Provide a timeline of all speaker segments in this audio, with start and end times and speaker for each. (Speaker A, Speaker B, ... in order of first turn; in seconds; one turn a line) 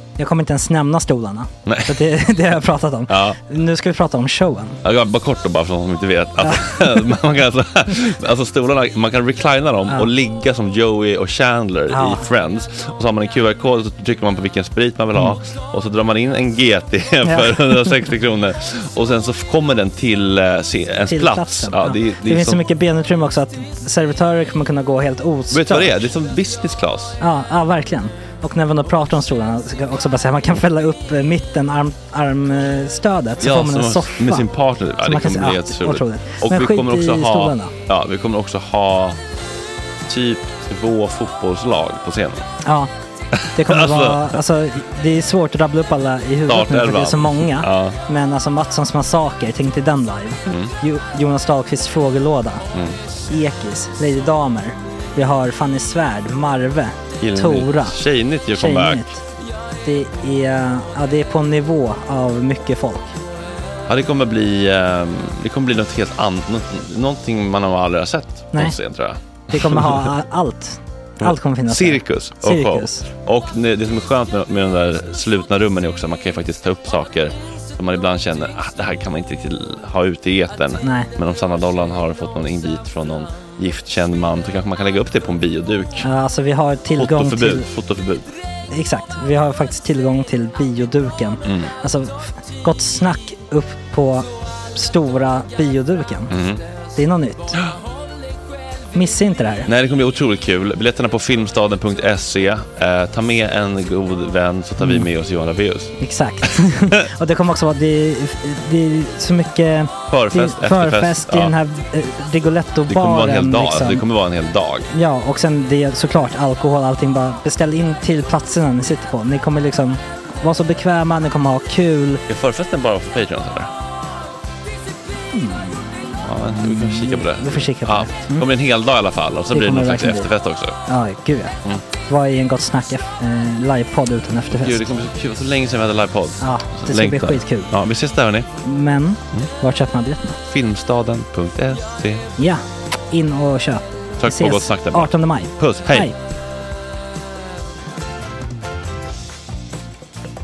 Speaker A: 0.2-4.8
Speaker B: 1.6-2.0
Speaker B: 3.1-3.4
Speaker B: 4.8-22.6
Speaker A: 6.4-7.0
Speaker A: 11.9-12.2
Speaker A: 17.2-17.8
Speaker A: 21.1-26.1
Speaker B: 25.5-27.2
Speaker A: 27.2-34.5
Speaker B: 33.4-39.2
Speaker A: 35.0-37.7
Speaker B: 40.1-42.5
Speaker A: 42.6-42.9
Speaker A: 43.5-52.7
Speaker B: 43.5-44.3
Speaker B: 46.5-48.0
Speaker B: 50.5-50.7
Speaker B: 52.7-53.0
Speaker A: 53.3-58.0
Speaker B: 57.2-59.1
Speaker A: 58.5-59.2
Speaker A: 59.8-63.2
Speaker B: 63.9-70.1
Speaker A: 69.5-73.1
Speaker B: 71.2-86.1
Speaker A: 80.8-81.1
Speaker A: 86.0-87.7
Speaker B: 87.0-88.3
Speaker A: 88.7-96.3
Speaker B: 91.4-91.7
Speaker B: 96.3-96.6
Speaker A: 96.9-97.6
Speaker A: 98.9-99.7
Speaker B: 99.7-105.9
Speaker A: 106.0-114.0
Speaker B: 110.1-111.5
Speaker B: 112.9-114.9
Speaker A: 114.9-122.2
Speaker B: 122.3-123.7
Speaker A: 125.3-128.5
Speaker B: 126.2-130.8
Speaker A: 129.5-130.3
Speaker A: 130.9-134.9
Speaker B: 134.6-138.5
Speaker A: 136.4-137.7
Speaker A: 138.6-140.4
Speaker B: 140.5-142.2
Speaker A: 142.4-146.2
Speaker B: 144.2-146.1